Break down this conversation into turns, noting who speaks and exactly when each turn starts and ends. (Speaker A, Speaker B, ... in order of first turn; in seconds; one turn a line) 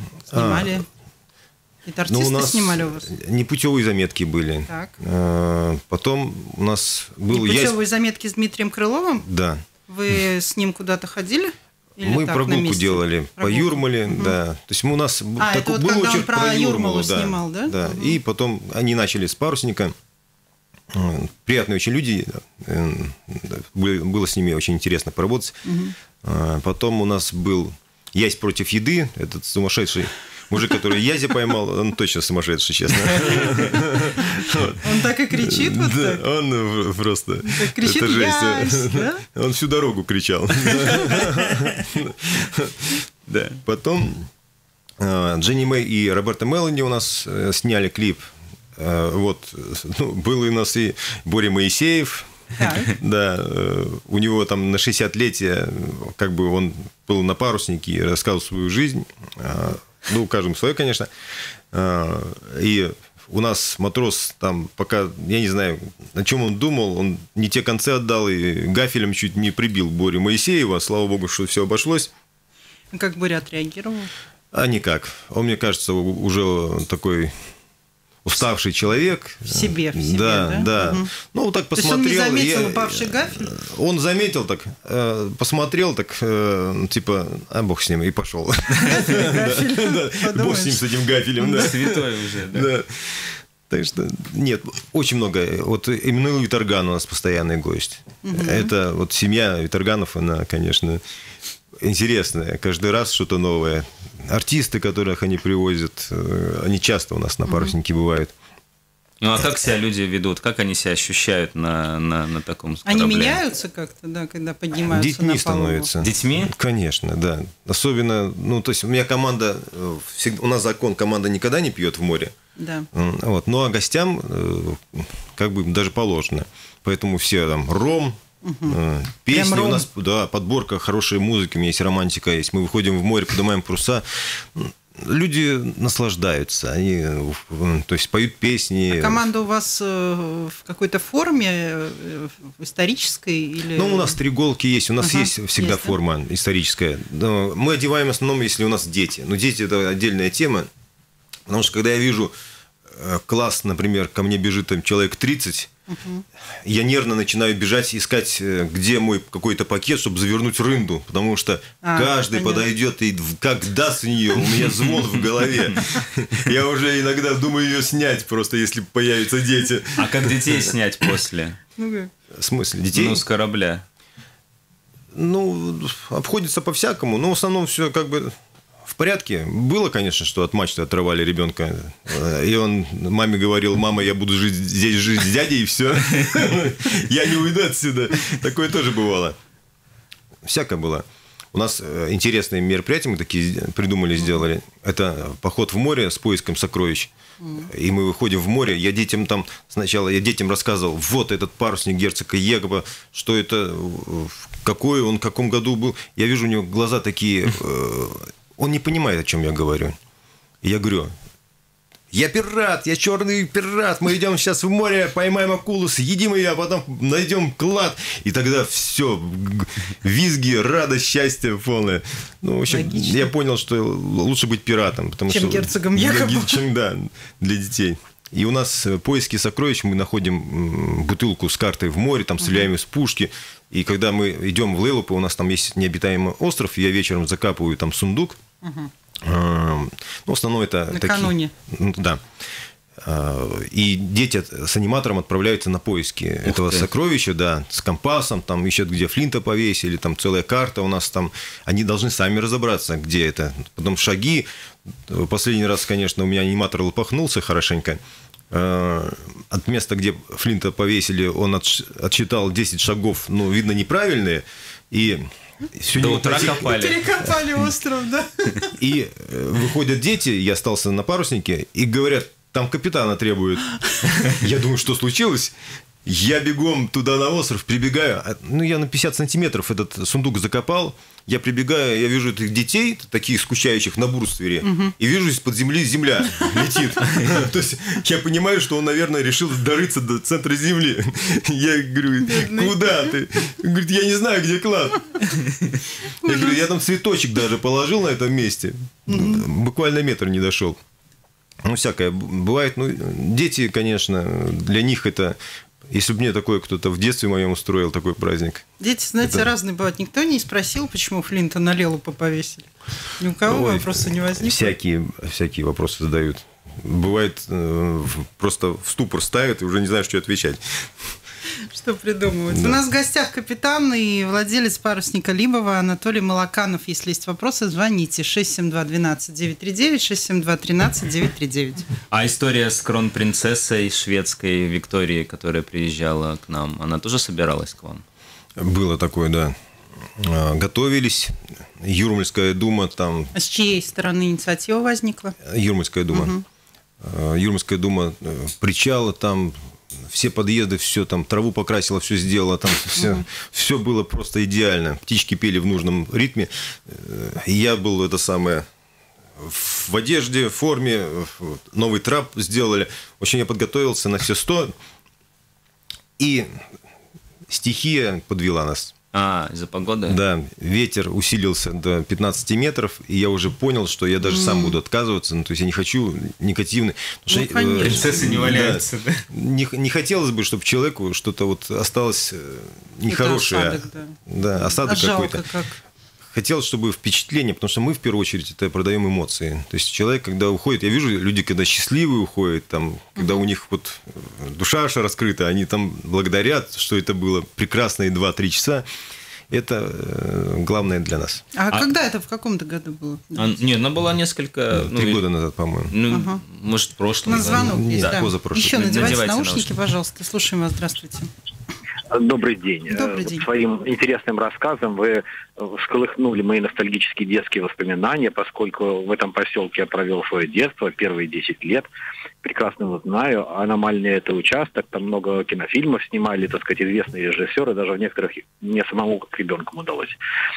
Speaker A: 0.3-0.8
Speaker B: 0.3-0.9
Speaker B: 1.9-3.1
Speaker A: 2.1-7.8
Speaker B: 4.7-4.9
Speaker B: 7.3-9.3
Speaker A: 9.2-9.6
Speaker B: 9.9-14.3
Speaker A: 12.0-19.9
Speaker B: 15.4-18.2
Speaker A: 20.9-25.6
Speaker B: 25.6-25.9
Speaker A: 26.2-43.0
Speaker B: 33.4-33.6
Speaker B: 34.8-36.2
Speaker B: 37.4-39.2
Speaker C: 43.3-43.6
Speaker A: 43.6-44.3
Speaker A: 45.0-48.3
Speaker A: 48.8-61.1
Speaker B: 52.6-52.9
Speaker A: 61.7-72.1
Speaker B: 72.9-74.1
Speaker A: 74.5-77.3
Speaker A: 78.2-101.0
Speaker B: 79.5-81.1
Speaker B: 81.8-83.5
Speaker B: 88.8-90.8
Speaker C: 91.4-92.7
Speaker B: 98.2-98.7
Speaker A: 101.8-108.3
Speaker B: 107.5-107.7
Speaker C: 109.2-113.4
Speaker B: 112.9-115.9
Speaker A: 114.8-122.3
Speaker C: 116.0-116.5
Speaker B: 122.6-122.9
Speaker A: 122.9-139.2
Speaker B: 128.4-128.8
Speaker B: 129.3-129.9
Speaker B: 138.9-144.2
Speaker A: 143.7-150.7
Speaker B: 145.0-146.0
Speaker A: 151.5-152.3
Speaker A: 152.9-155.7
Speaker B: 155.9-156.2
Speaker A: 156.6-170.4
Speaker B: 161.8-162.7
Speaker C: 170.0-171.6
Speaker B: 171.8-172.1
Speaker A: 172.3-173.2
Speaker C: 172.9-173.8
Speaker A: 175.1-189.4
Speaker A: 190.4-210.0
Speaker B: 197.4-197.7
Speaker A: 210.6-211.1
Speaker A: 212.1-238.4
Speaker B: 222.7-223.3
Speaker B: 225.3-226.6
Speaker B: 232.4-232.7
Speaker B: 238.6-238.9
Speaker A: 239.2-242.2
Speaker B: 240.9-241.5
Speaker A: 243.0-258.0
Speaker C: 246.4-246.8
Speaker A: 258.5-266.9
Speaker C: 265.9-267.0
Speaker B: 266.4-268.7
Speaker A: 268.8-273.7
Speaker A: 274.2-295.3
Speaker B: 284.6-284.9
Speaker B: 292.2-292.9
Speaker B: 296.1-296.6
Speaker A: 296.2-300.8
Speaker B: 299.1-299.5
Speaker A: 301.6-305.4
Speaker A: 305.9-308.7
Speaker B: 308.8-314.7
Speaker A: 309.2-309.5
Speaker A: 313.4-321.1
Speaker B: 321.7-331.9
Speaker A: 322.5-322.8
Speaker C: 332.1-338.0
Speaker A: 338.6-339.6
Speaker A: 340.2-343.3
Speaker B: 343.3-345.4
Speaker A: 345.4-346.3
Speaker B: 346.1-346.4
Speaker A: 347.0-358.7
Speaker B: 353.0-353.2
Speaker A: 359.4-364.8
Speaker A: 366.2-366.6
Speaker A: 367.5-368.9
Speaker C: 369.1-370.2
Speaker A: 370.1-385.5
Speaker B: 374.2-374.8
Speaker B: 377.3-378.3
Speaker C: 377.8-379.2
Speaker B: 383.1-384.2
Speaker B: 384.8-385.8
Speaker A: 386.3-398.9
Speaker B: 393.2-393.4
Speaker A: 399.5-401.4
Speaker B: 401.6-403.5
Speaker C: 403.4-405.2
Speaker A: 404.7-405.9
Speaker C: 405.9-409.7
Speaker B: 406.1-406.4
Speaker B: 407.2-411.3
Speaker A: 407.3-409.1
Speaker D: 412.1-421.9
Speaker B: 412.9-413.4
Speaker D: 422.4-430.2